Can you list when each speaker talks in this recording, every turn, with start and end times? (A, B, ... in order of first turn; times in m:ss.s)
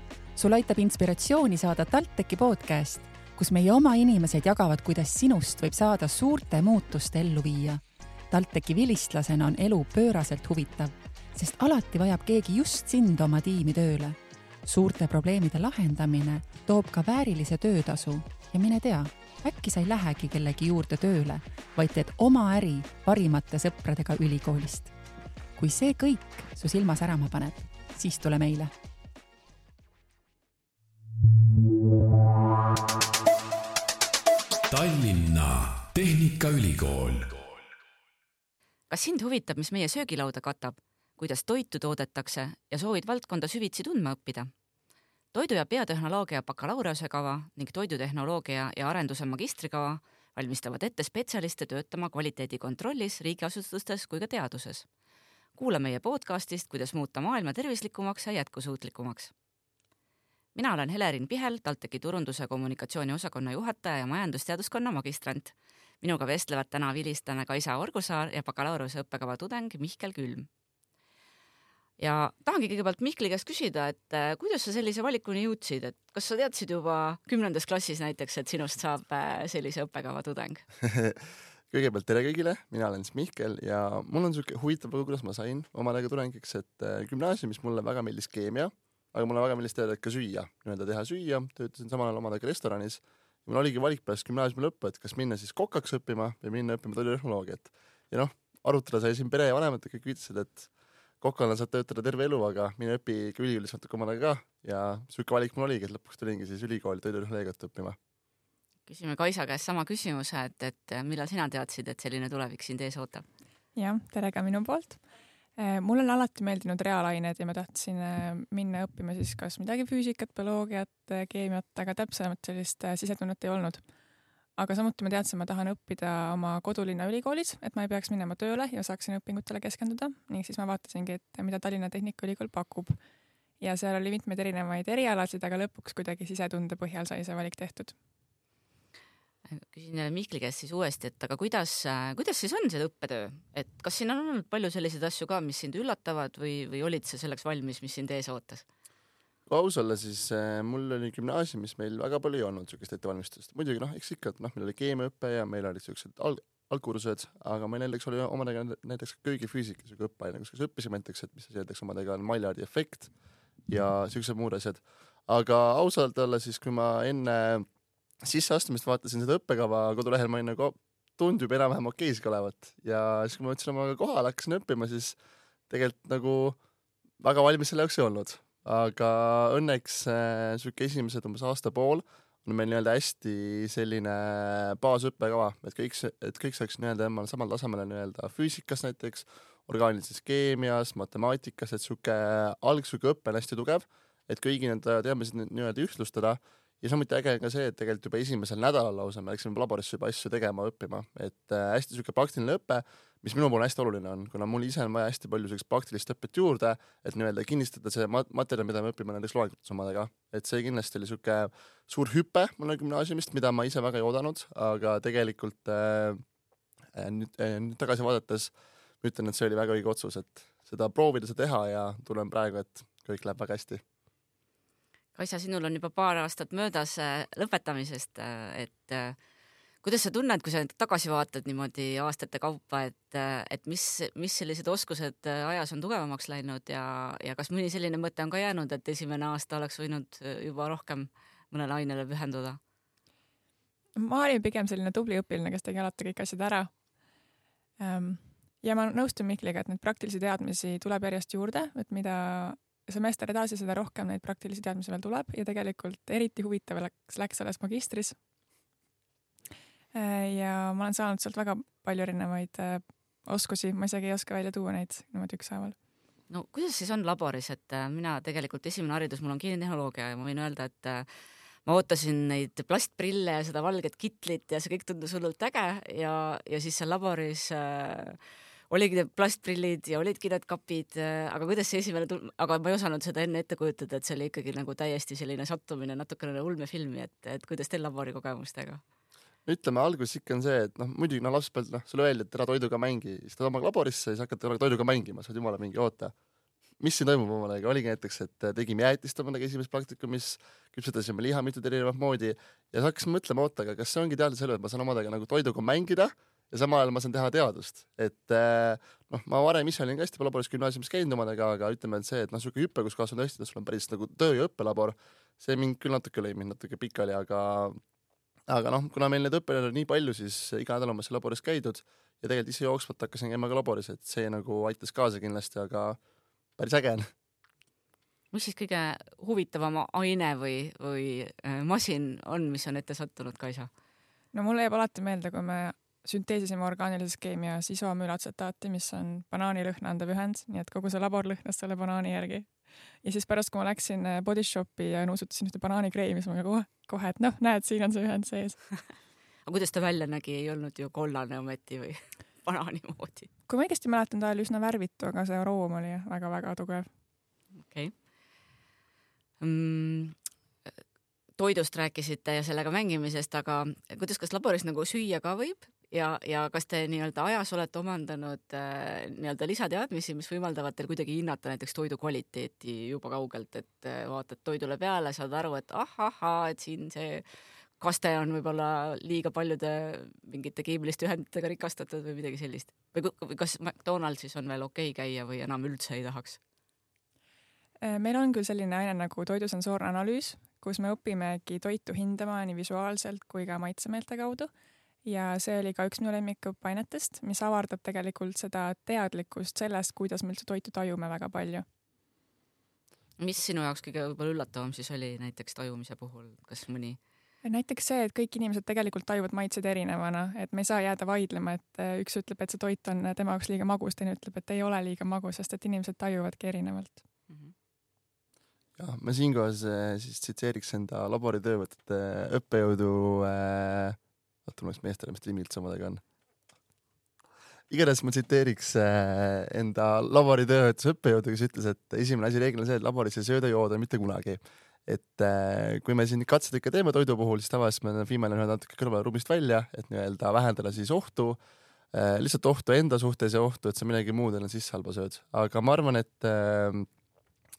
0:00.4-0:24.9 A
0:25.6-0:28.7 A
0:34.7-0:37.4 B
0:38.9-0:44.5 C
0:45.3-0:54.8 C
0:55.6-0:59.3 C
1:00.5-1:10.5 C
1:12.0-1:20.6 C
1:20.8-1:40.7 D
1:41.2-1:48.0 D
1:48.9-1:53.2 C
1:53.8-1:55.0 E
1:55.6-2:03.8 E
2:04.6-2:13.0 E
2:13.6-2:17.9 E
2:19.5-2:28.6 C
2:29.5-2:43.1 D
2:43.7-2:47.6 D
2:48.2-2:55.2 D
2:55.7-2:56.6 D
2:57.2-3:36.2 D
3:36.9-3:43.8 D
3:45.1-3:49.2 C
3:49.8-4:02.6 C
4:04.0-4:06.7 E
4:07.8-4:18.2 E
4:19.9-4:25.7 E
4:26.3-4:31.1 C
4:31.6-4:38.2 C
4:38.7-4:48.8 C
4:49.4-4:56.1 D
4:56.8-5:17.8 D
5:18.5-5:26.0 D
5:26.6-5:27.1 D
5:28.3-5:33.7 C
5:34.3-5:42.5 E
5:43.0-5:48.6 E
5:49.4-5:53.3 C
5:53.5-5:56.9 E
5:57.6-5:57.9 C
5:59.4-6:00.1 C
6:01.4-6:17.2 C
6:17.8-6:26.4 C
6:27.8-6:34.5 E
6:35.0-6:41.6 E
6:43.2-6:47.0 C
6:47.4-6:57.0 E
6:58.8-7:06.0 D
7:07.7-7:21.4 D
7:21.9-7:26.9 D